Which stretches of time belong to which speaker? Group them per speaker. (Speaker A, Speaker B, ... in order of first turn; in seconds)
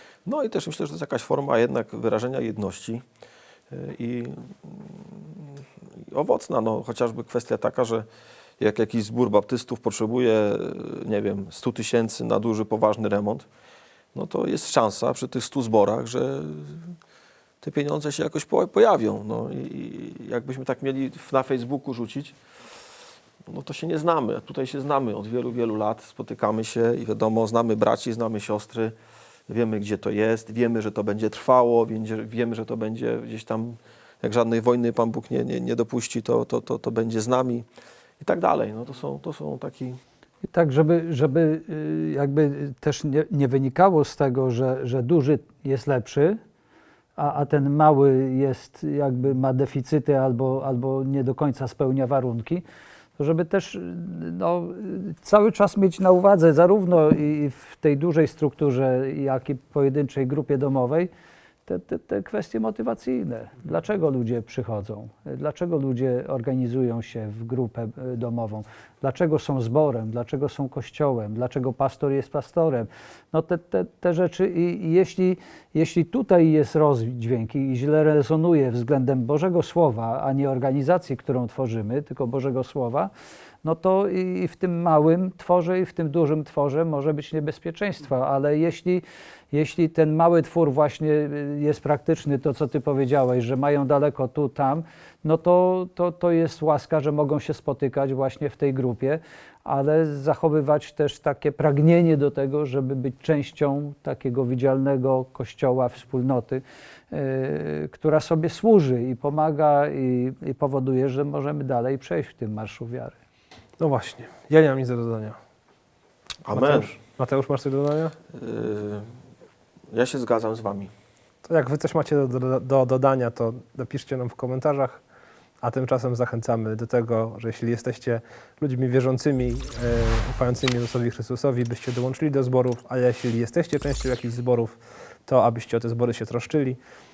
Speaker A: 0.2-3.0, 3.7-5.6, 6.1-8.1, 8.6-13.4, 14.1-16.9, 17.6-22.4, 23.5-28.9, 29.5-37.6, 38.2-40.0, 116.4-116.9, 118.3-119.1, 119.9-120.9
Speaker B: 40.5-46.4, 47.2-52.6, 53.2-61.1, 61.6-83.1, 83.6-113.1
Speaker C: 113.8-115.4, 116.5-118.1, 121.4-125.0, 125.6-136.8